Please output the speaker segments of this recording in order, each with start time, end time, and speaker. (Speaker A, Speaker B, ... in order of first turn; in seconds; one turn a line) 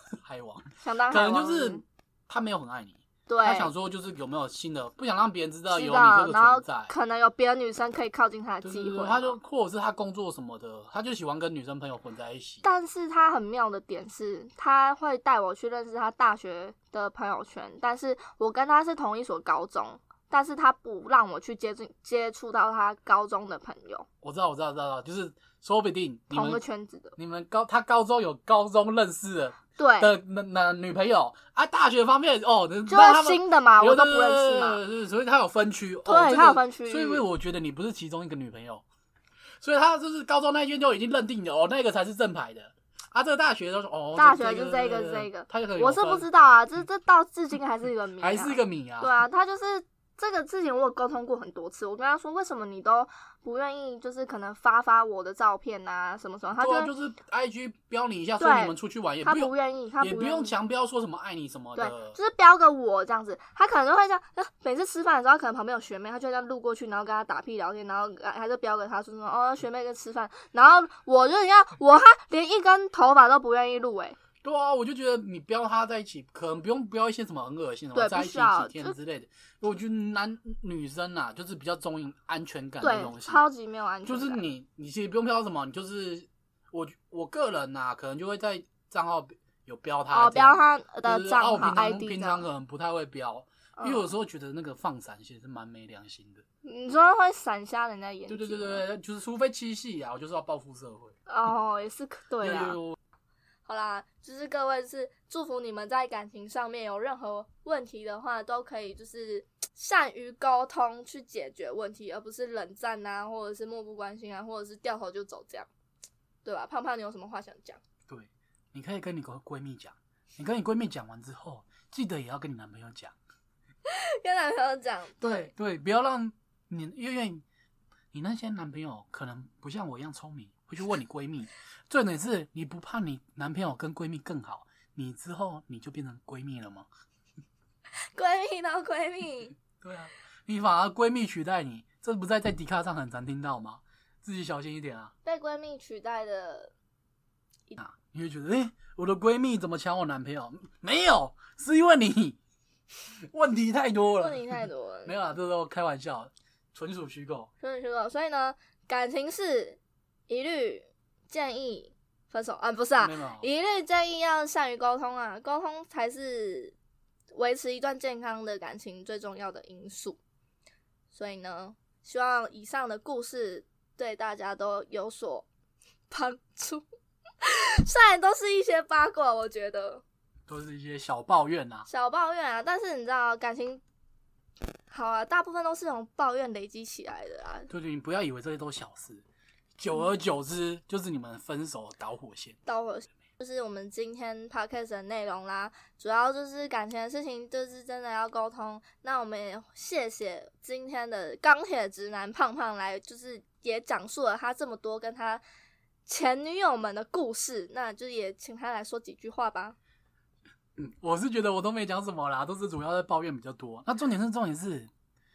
Speaker A: 0.2-6.9
Speaker B: 0.8-1.8
Speaker B: 3.3-3.7
Speaker B: 5.7-9.4
Speaker A: 8.6-12.6
Speaker B: 12.6-24.1
Speaker A: 24.2-26.6
Speaker B: 26.3-27.1
Speaker A: 27.1-38.8
Speaker B: 29.8-30.1
Speaker B: 32.9-34.8
Speaker B: 36.0-37.2
Speaker A: 39.6-46.3
Speaker B: 44.1-56.9
Speaker A: 48.2-49.2
Speaker A: 56.6-62.2
Speaker B: 58.4-60.5
Speaker B: 61.8-74.2
Speaker A: 74.4-83.4
Speaker B: 77.9-79.0
Speaker B: 82.8-84.4
Speaker A: 84.0-96.4
Speaker B: 90.1-92.5
Speaker B: 93.8-94.1
Speaker B: 96.6-98.8
Speaker A: 98.3-101.2
Speaker B: 101.3-102.8
Speaker A: 102.4-103.0
Speaker B: 103.7-115.7
Speaker B: 116.4-117.8
Speaker A: 118.1-123.2
Speaker B: 123.8-125.5
Speaker A: 125.2-127.4
Speaker A: 128.1-136.9
Speaker B: 138.1-139.6
Speaker A: 139.8-145.1
Speaker B: 145.2-146.7
Speaker A: 147.8-152.4
Speaker A: 153.2-157.5
Speaker B: 154.2-155.1
Speaker B: 157.6-166.8
Speaker A: 163.0-163.5
Speaker B: 167.3-170.2
Speaker B: 171.1-175.4
Speaker B: 176.1-176.8
Speaker B: 177.4-180.0
Speaker A: 180.5-181.9
Speaker B: 181.8-183.8
Speaker B: 184.9-187.7
Speaker A: 187.7-189.2
Speaker A: 189.8-192.6
Speaker B: 192.7-205.4
Speaker B: 206.1-209.8
Speaker A: 210.8-214.9